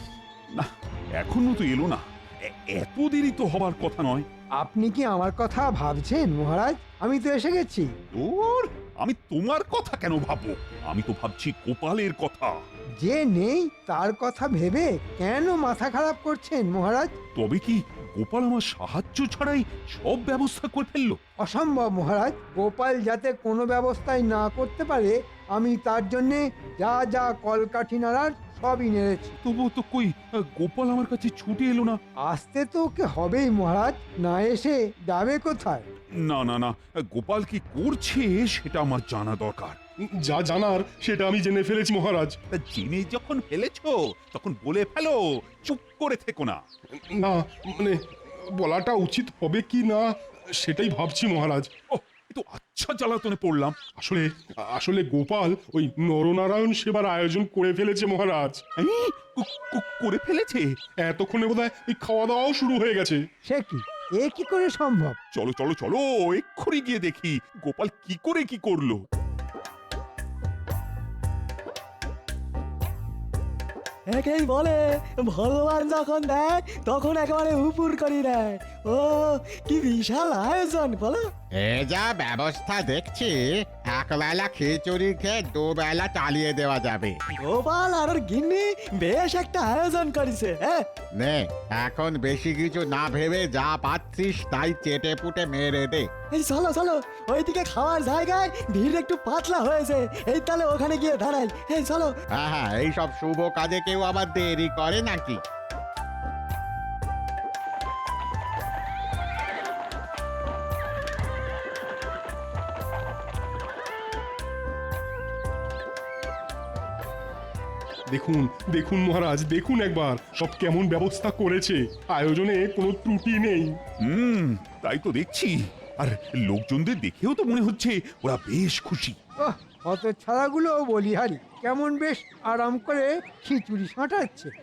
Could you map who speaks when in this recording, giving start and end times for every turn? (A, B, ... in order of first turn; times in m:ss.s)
0:00.6-0:04.2 A
0:04.6-0:07.9 B
0:08.1-0:12.6 A
0:13.0-0:17.1 B
0:17.3-0:21.2 A
0:21.4-0:29.4 B
0:29.4-0:32.0 A
0:32.3-0:35.8 B
0:36.3-0:39.8 A
0:40.2-0:42.3 C
0:42.5-0:46.6 A
0:47.1-0:50.1 C
0:50.6-0:51.7 C
0:51.9-0:53.8 A
0:53.9-0:58.6 C
0:58.8-1:00.6 A
1:01.0-1:03.2 C
1:03.5-1:05.2 B
1:05.3-1:09.0 A
1:14.1-1:21.2 D
1:21.6-1:23.4 E
1:23.9-1:27.1 E
1:27.5-1:30.8 D
1:31.2-1:36.0 E
1:36.4-1:42.1 D
1:42.4-1:45.4 E
1:58.1-2:03.7 C
2:04.0-2:09.1 A
2:09.4-2:14.5 B